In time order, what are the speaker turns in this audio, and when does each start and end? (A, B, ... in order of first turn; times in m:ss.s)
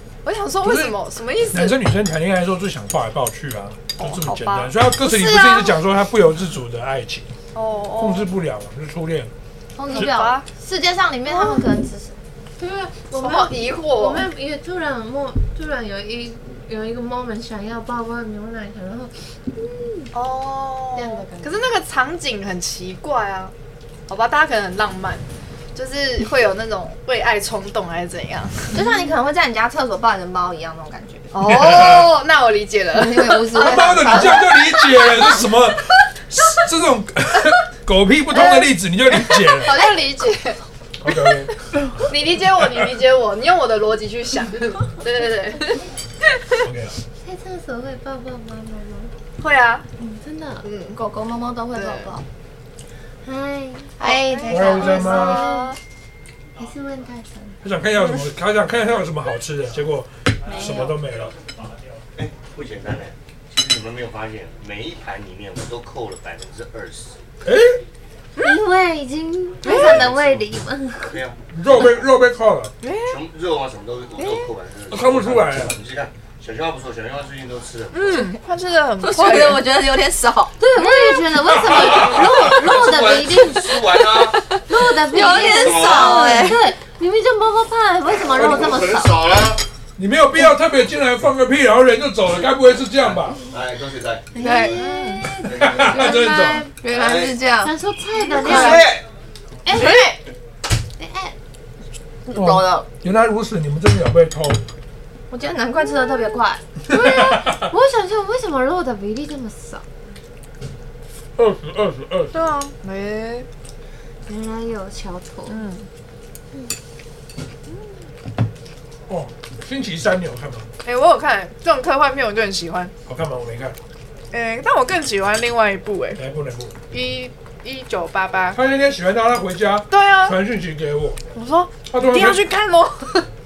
0:00.2-0:01.8 A
0:00.6-0:01.0 B
0:01.5-0:07.3 B
0:04.0-0:05.8 A
0:07.5-0:08.3 A
0:08.0-0:09.3 B
0:09.8-0:12.2 C
0:09.9-0:10.5 A
0:11.3-0:11.6 D
0:12.6-0:20.1 D
0:13.1-0:14.3 A
0:20.1-0:23.5 A
0:20.9-0:21.7 D
0:24.1-0:28.8 A
0:28.7-0:31.5 C
0:28.7-0:29.1 D
0:31.3-0:35.4 A
0:31.4-0:32.1 B
0:32.9-0:34.5 C
0:33.5-0:39.7 B
0:38.3-0:41.3 A
0:39.6-0:40.0 C
0:41.0-0:42.9 B
0:42.0-0:46.6 A
0:46.6-0:47.0 B
0:47.2-0:49.1 D
0:49.4-0:49.9 A
0:50.0-0:50.7 D
0:50.6-0:51.0 A
0:50.9-0:52.2 C
0:51.7-0:52.1 A
0:53.2-0:55.8 D
0:54.0-0:55.6 C
0:54.0-0:55.7 A
0:54.5-0:55.4 B
0:56.6-0:57.6 D
0:57.6-1:01.4 B
1:00.5-1:01.0 C
1:00.5-1:00.9 A
1:02.2-1:07.2 E
1:07.4-1:07.8 B
1:08.4-1:11.2 D
1:09.6-1:10.0 A
1:09.7-1:10.5 E
1:11.0-1:11.4 E
1:11.5-1:12.7 B
1:12.8-1:13.2 A
1:13.0-1:18.4 E
1:14.2-1:14.5 A
1:14.9-1:15.8 B
1:17.9-1:19.6 A
1:19.0-1:26.7 C
1:20.6-1:29.5 D
1:21.4-1:22.5 B
1:21.7-1:24.6 E
1:25.1-1:26.5 E
1:28.3-1:29.6 E
1:28.4-1:28.7 B
1:30.0-1:33.4 B
1:33.0-1:34.8 E
1:34.3-1:36.9 D
1:34.4-1:34.8 C
1:34.7-1:35.3 A
1:35.4-1:36.2 E
1:35.5-1:36.6 B
1:36.8-1:37.7 C
1:36.9-1:37.4 E
1:37.6-1:39.0 D
1:38.4-1:39.0 E
1:38.4-1:38.9 C
1:38.4-1:38.8 A
1:39.6-1:40.1 D
1:39.7-1:40.2 C
1:41.0-1:41.3 D
1:42.2-1:42.9 C
1:42.3-1:44.7 B
1:45.3-1:46.6 C
1:45.8-1:49.8 D
1:46.9-1:47.4 B
1:51.4-1:52.3 B
1:52.3-1:53.5 A
1:54.2-1:55.6 D
1:55.5-1:55.9 A
1:59.1-2:00.7 B
2:00.8-2:02.9 A
2:03.0-2:03.8 B
2:04.3-2:06.2 A
2:06.2-2:06.8 B
2:06.9-2:08.6 A
2:08.5-2:11.2 B
2:09.9-2:10.3 A
2:11.3-2:13.3 A
2:11.9-2:12.4 B